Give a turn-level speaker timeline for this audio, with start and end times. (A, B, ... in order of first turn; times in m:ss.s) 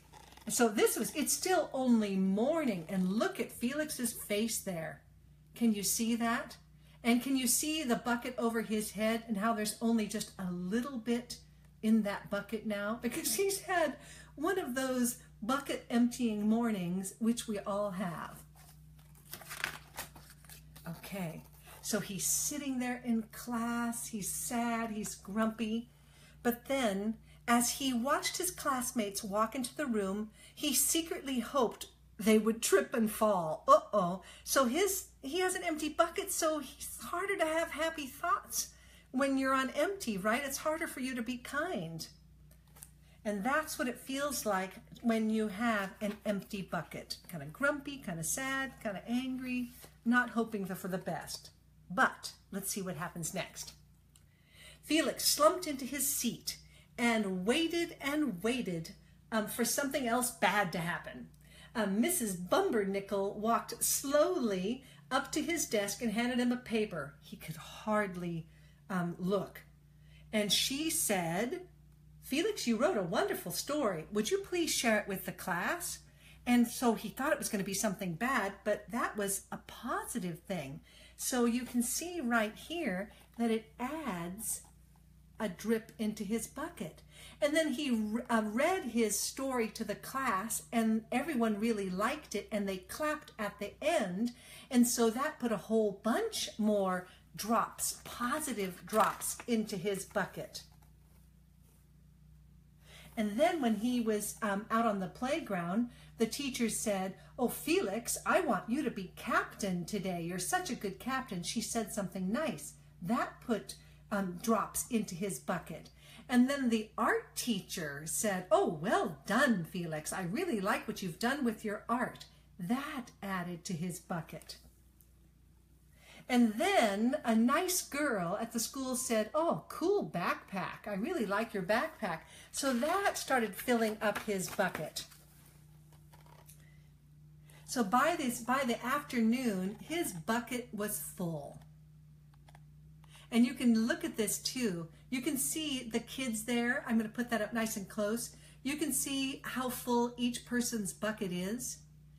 0:00.4-0:05.0 A
0:05.5-0:18.4 A
0:20.8-0:25.9 A
0:26.4-0:42.1 A
0:43.2-0:53.8 A
0:54.8-1:09.7 A
1:10.3-1:11.6 A
1:12.2-1:24.6 A
1:25.4-1:40.6 A
1:43.2-2:04.6 A
2:06.3-2:15.1 A
2:17.6-2:21.6 A
2:23.3-2:31.8 A